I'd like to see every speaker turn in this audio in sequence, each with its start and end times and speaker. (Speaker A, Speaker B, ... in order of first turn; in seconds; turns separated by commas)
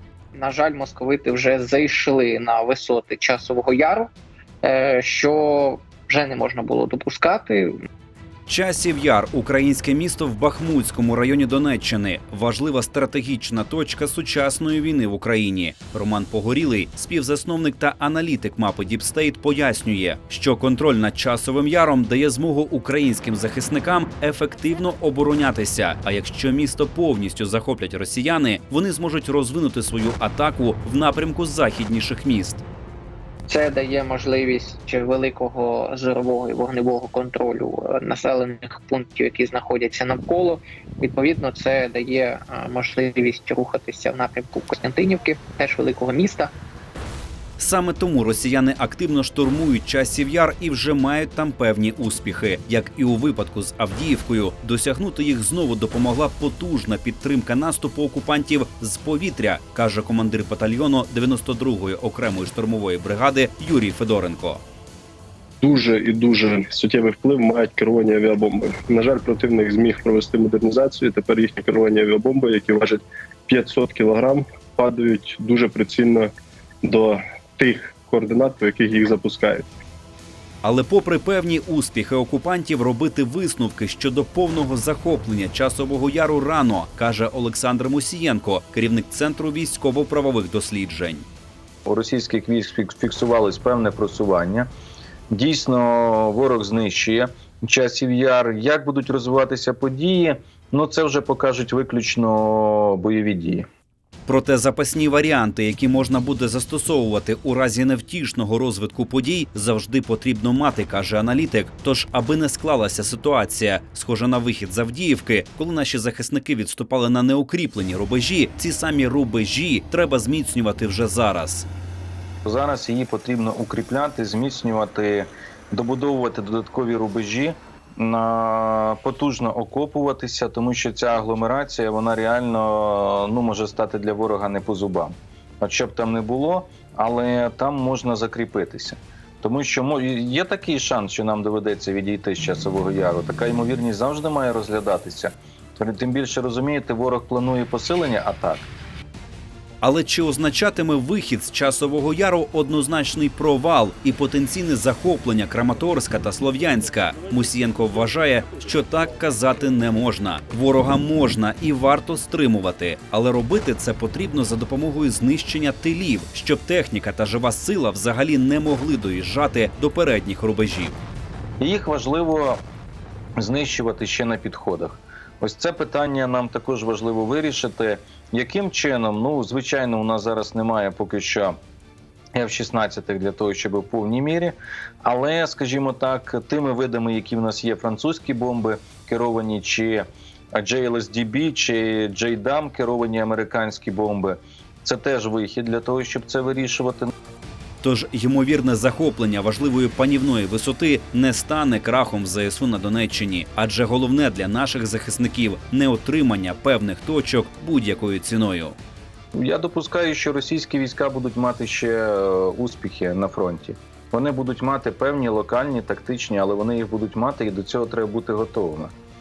Speaker A: 0.3-4.1, Speaker A: 4.6-7.7, Speaker B: 8.5-32.6, Speaker A: 33.5-46.5, Speaker B: 47.6-64.6, Speaker C: 65.6-76.3, Speaker C: 76.8-79.7, Speaker B: 80.6-91.2, Speaker D: 91.9-94.7, Speaker D: 95.3-103.7, Speaker B: 104.3-121.7, Speaker D: 122.5-148.7, Speaker B: 149.8-171.0, Speaker D: 171.6-172.6, Speaker D: 173.4-181.6, Speaker D: 182.3-197.1, Speaker B: 197.8-208.8, Speaker D: 209.3-218.9